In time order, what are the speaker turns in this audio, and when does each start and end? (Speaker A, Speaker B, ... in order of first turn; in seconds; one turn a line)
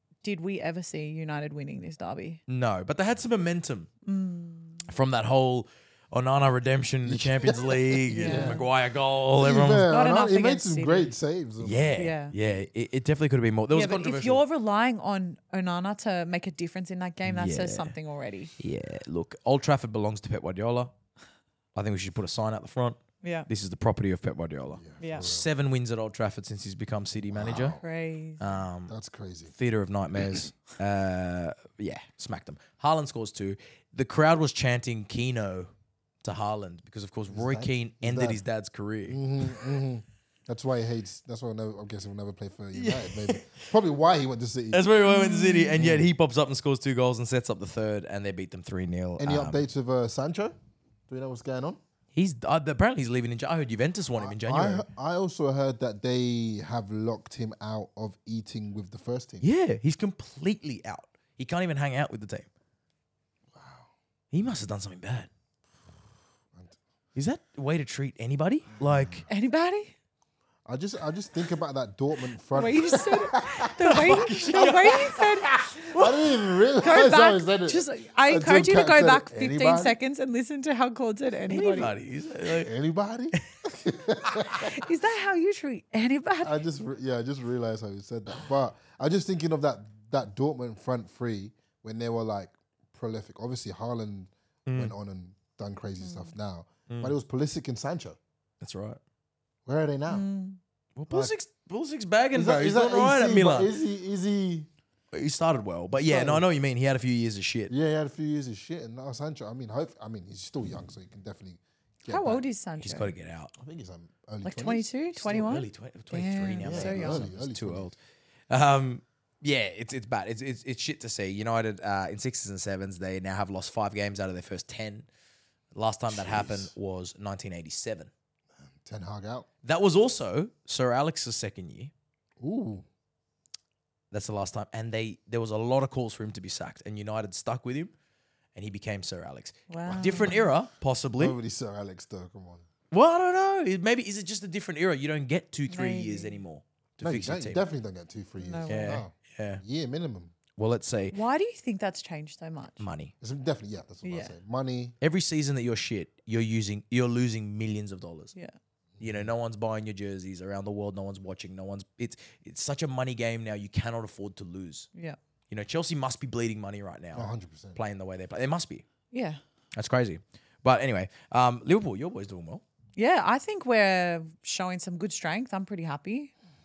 Speaker A: 0.2-2.4
Speaker B: 2.5-3.9
Speaker A: 4.0-4.9
Speaker B: 4.8-9.9
Speaker C: 7.0-8.7
Speaker A: 8.1-8.6
Speaker C: 9.4-11.9
Speaker A: 9.9-11.1
Speaker B: 11.6-14.4
Speaker A: 11.9-12.3
Speaker A: 13.7-18.5
Speaker B: 17.2-17.9
Speaker B: 18.6-20.9
Speaker B: 21.7-27.8
Speaker A: 23.2-23.5
Speaker C: 24.7-25.5
Speaker A: 25.0-25.3
Speaker C: 27.3-27.8
Speaker A: 27.8-28.4
Speaker B: 28.4-28.9
Speaker C: 28.9-29.5
Speaker B: 29.6-35.7
Speaker B: 36.2-39.6
Speaker C: 37.3-38.4
Speaker C: 39.1-44.9
Speaker B: 42.7-43.7
Speaker B: 44.7-49.6
Speaker A: 45.0-45.8
Speaker C: 45.8-46.1
Speaker C: 49.2-50.5
Speaker C: 51.1-51.8
Speaker B: 52.1-54.9
Speaker C: 54.2-59.5
Speaker B: 59.4-62.5
Speaker C: 63.5-63.9
Speaker B: 64.3-65.3
Speaker C: 66.5-66.8
Speaker B: 67.2-69.2
Speaker C: 68.8-69.2
Speaker A: 69.3-69.9
Speaker C: 70.7-73.9
Speaker A: 72.5-76.0
Speaker B: 73.8-76.3
Speaker C: 74.5-75.0
Speaker C: 75.9-80.0
Speaker A: 76.8-81.9
Speaker B: 81.5-82.7
Speaker C: 82.5-84.8
Speaker B: 84.3-84.7
Speaker A: 84.6-86.6
Speaker C: 86.4-98.2
Speaker B: 94.7-94.9
Speaker A: 96.0-96.3
Speaker B: 96.9-97.1
Speaker B: 98.6-99.0
Speaker C: 99.7-100.3
Speaker A: 100.1-100.6
Speaker B: 101.0-103.7
Speaker C: 102.3-104.7
Speaker B: 105.1-107.7
Speaker C: 105.9-106.5
Speaker C: 107.7-112.4
Speaker A: 112.1-113.1
Speaker B: 112.8-113.5
Speaker C: 113.5-115.5
Speaker A: 114.4-117.3
Speaker B: 115.2-118.0
Speaker C: 116.6-117.9
Speaker B: 118.5-125.1
Speaker B: 125.7-128.1
Speaker C: 126.1-126.7
Speaker C: 128.6-129.5
Speaker B: 129.6-131.9
Speaker C: 132.4-132.8
Speaker B: 134.1-137.9
Speaker B: 138.5-141.3
Speaker A: 139.7-140.5
Speaker C: 140.0-140.4
Speaker C: 141.2-142.7
Speaker B: 142.9-147.6
Speaker A: 145.7-146.4
Speaker C: 147.0-150.3
Speaker A: 148.4-149.0
Speaker B: 148.7-149.6
Speaker B: 150.6-151.1
Speaker A: 151.1-152.8
Speaker B: 152.8-153.1
Speaker C: 153.2-154.9
Speaker A: 154.0-154.3
Speaker B: 155.0-158.3
Speaker C: 159.0-159.3
Speaker B: 159.0-164.9
Speaker B: 165.5-168.8
Speaker C: 167.1-167.8
Speaker A: 169.1-169.4
Speaker B: 169.7-172.6
Speaker A: 172.9-176.3